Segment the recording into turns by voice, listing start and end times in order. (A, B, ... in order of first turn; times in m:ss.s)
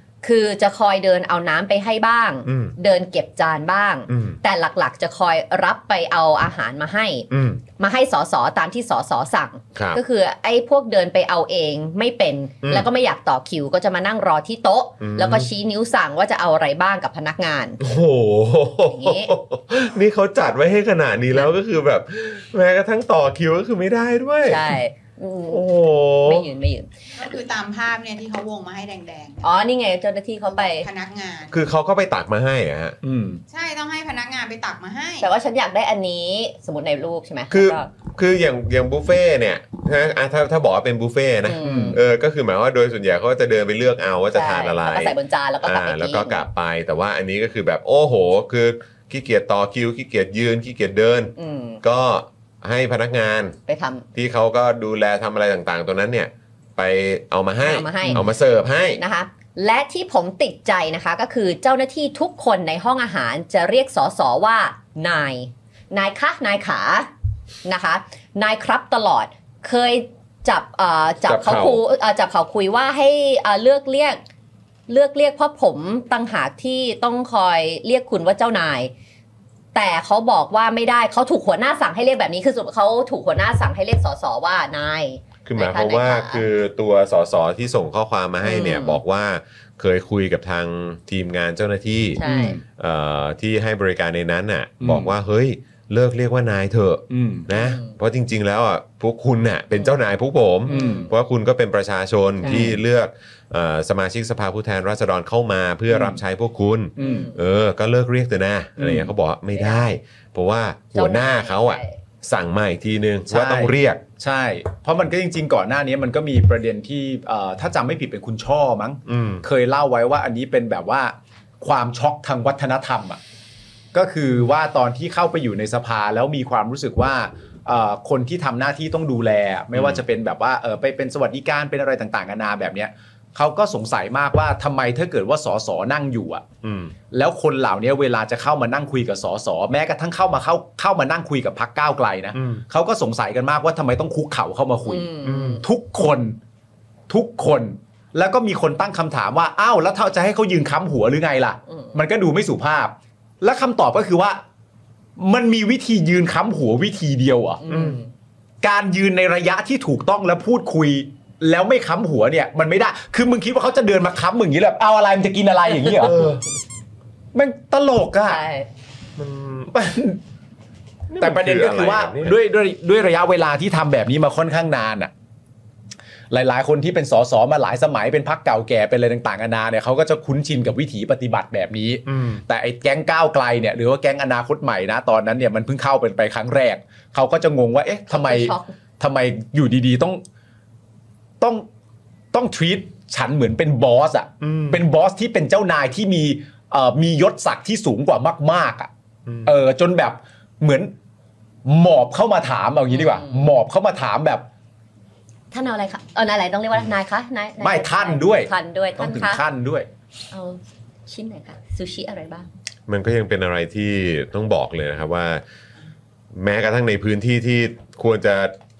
0:00.2-0:07.3 A
0:02.4-0:02.7 B
0:04.1-0:04.4 B
0:07.3-0:07.6 B
0:07.8-0:17.8 A
0:09.7-0:10.0 B
0:15.0-0:15.5 B
0:17.8-0:24.8 B
0:18.9-0:19.3 A
0:24.4-0:25.6 A
0:25.5-0:26.5 B
0:26.2-0:26.9 A
0:27.2-0:29.4 C
0:29.4-0:30.9 A
0:30.4-0:31.5 C
0:31.5-0:33.0 B
0:33.0-0:33.4 D
0:33.5-0:35.3 C
0:35.2-0:37.9 A
0:37.5-0:53.6 B
0:41.4-0:42.0 A
0:41.6-0:42.0 D
0:44.3-0:46.4 A
0:51.4-0:51.8 A
0:53.7-0:54.0 A
0:54.1-0:59.0 B
0:57.6-0:58.2 A
0:59.0-1:07.1 A
1:07.6-1:14.2 A
1:11.2-1:11.8 B
1:14.9-1:18.9 A
1:19.7-1:26.4 A
1:25.4-1:32.2 B
1:28.4-1:29.0 A
1:32.2-1:32.6 A
1:32.2-1:32.6 D
1:32.8-1:54.0 B
1:34.8-1:35.1 D
1:37.1-1:37.5 D
1:37.5-1:37.9 A
1:40.7-1:41.1 D
1:40.7-1:41.1 A
1:42.4-1:42.7 A
1:42.4-1:42.8 D
1:45.9-1:46.2 D
1:47.0-1:47.3 D
1:47.0-1:47.4 A
1:48.8-1:49.1 D
1:49.5-1:49.8 A
1:51.0-1:52.0 A
1:53.3-2:03.2 D
1:59.1-1:59.4 B
2:03.9-2:16.4 D
2:09.7-2:10.0 B
2:16.6-2:16.9 B
2:17.1-2:26.4 D
2:22.3-2:22.6 B
2:24.8-2:25.6 A
2:25.2-2:25.6 B
2:27.1-2:34.4 D
2:35.2-2:37.6 D
2:37.6-2:38.1 A
2:37.7-2:38.0 B
2:38.6-2:46.3 D
2:46.0-2:46.4 B
2:47.3-2:48.4 D
2:48.2-2:48.7 A
2:49.2-2:49.8 B
2:49.7-2:50.2 D
2:51.1-2:52.4 B
2:51.2-2:55.1 D
2:56.3-3:10.2 D
3:02.0-3:02.4 B
3:08.1-3:08.7 A
3:11.4-3:11.7 D
3:12.3-3:18.9 D
3:14.4-3:14.8 B
3:19.2-3:19.6 B
3:19.4-3:20.9 D
3:21.6-3:24.5 D
3:22.9-3:23.5 A
3:25.5-3:29.4 A
3:27.6-3:29.9 D
3:30.3-3:32.5 A
3:32.9-3:35.4 B
3:36.3-3:38.5 B